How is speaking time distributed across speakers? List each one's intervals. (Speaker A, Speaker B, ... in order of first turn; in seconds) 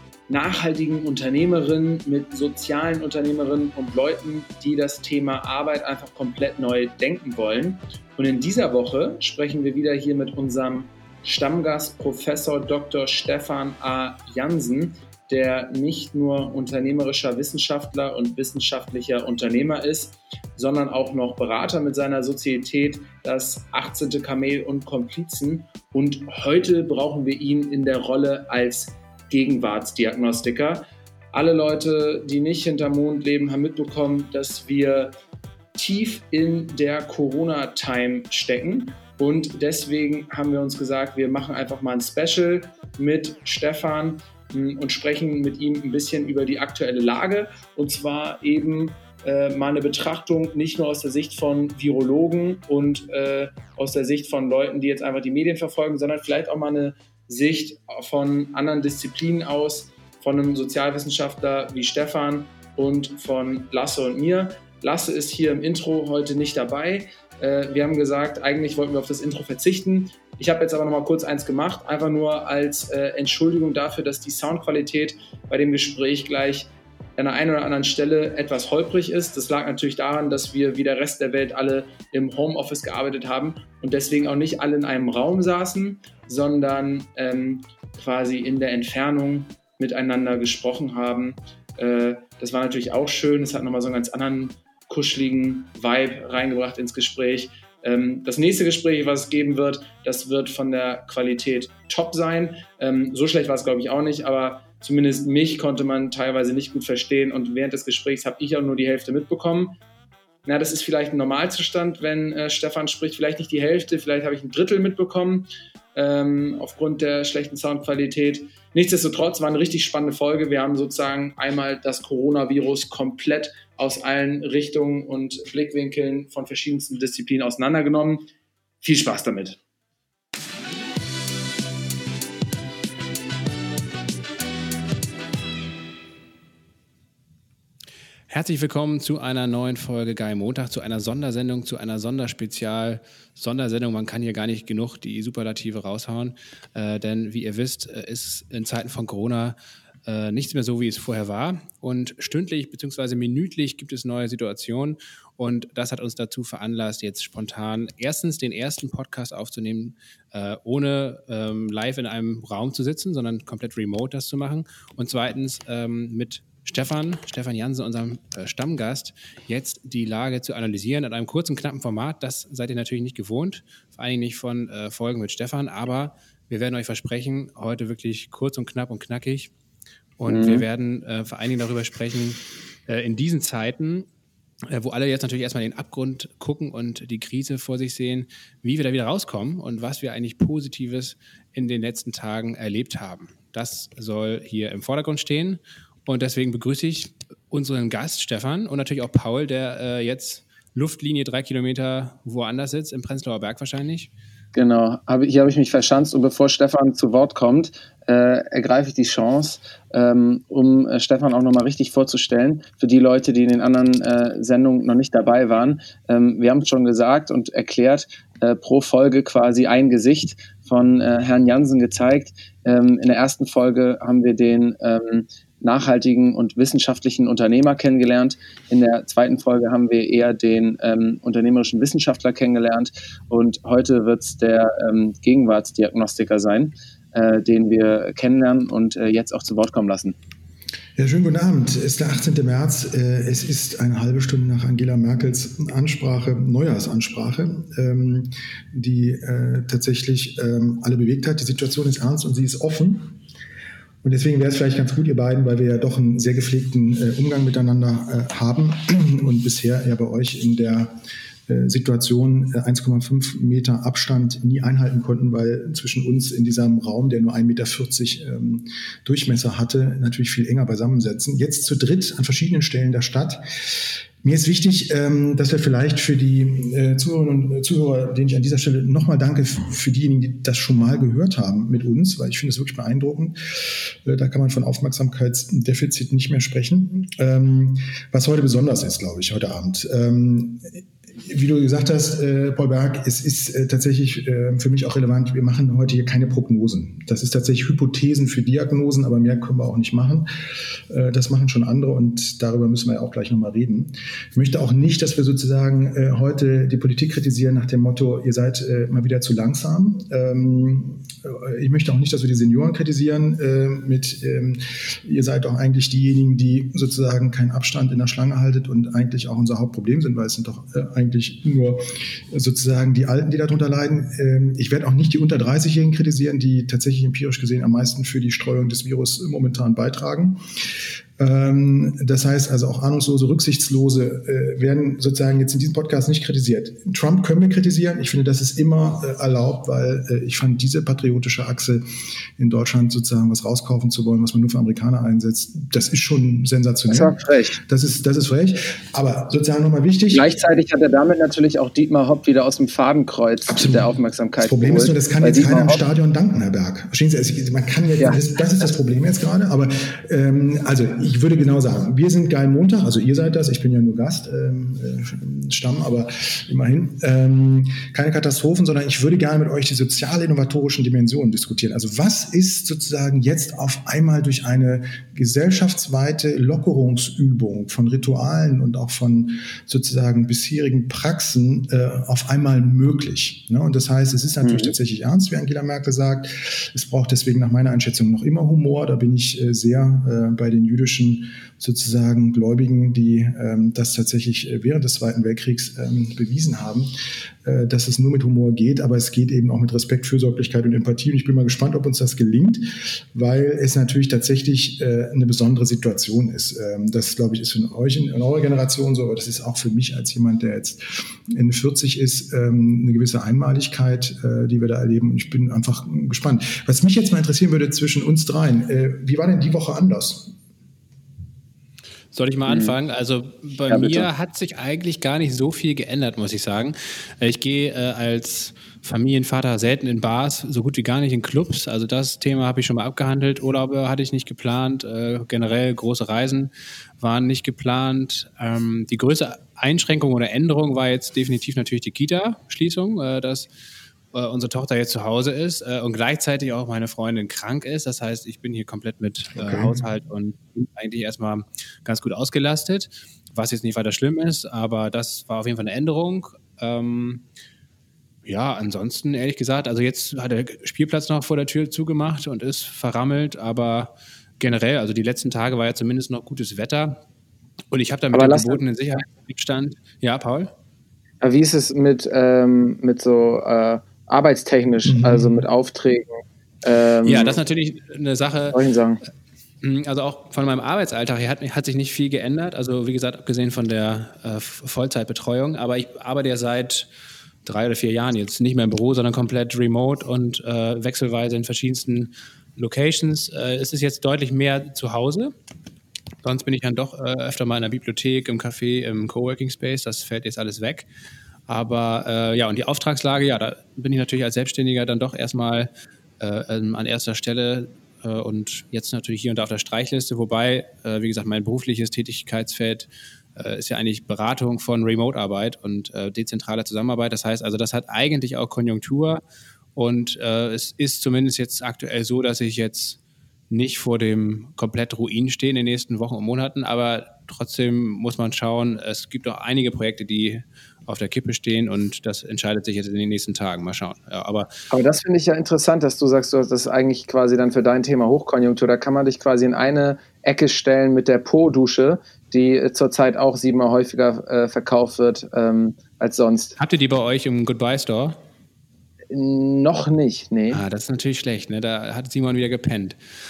Speaker A: 0.3-35.1, 35.7-109.8, 110.4-128.3, 128.8-129.6, 180.3-180.6, 204.5-240.2, 346.9-347.6, 350.1-355.8, 384.4-384.7, 422.4-422.8, 423.7-424.1, 468.1-468.6, 471.2-477.4, 478.5-479.0, 534.7-546.6, 549.1-550.6
Speaker B: 138.3-179.5, 180.2-184.1, 184.7-204.1, 422.1-443.5, 444.1-457.2, 458.2-467.0, 467.7-470.5, 477.0-478.6, 479.6-486.9, 487.4-495.3, 496.2-500.9, 501.5-505.7, 506.2-519.2, 519.8-523.0, 523.5-534.5, 546.6-548.2, 550.5-553.0
Speaker C: 240.9-253.2, 254.0-273.4, 274.2-330.4, 331.2-341.8, 342.4-347.1, 347.7-350.3, 353.5-396.9, 397.4-420.3, 449.4-449.8, 474.9-475.4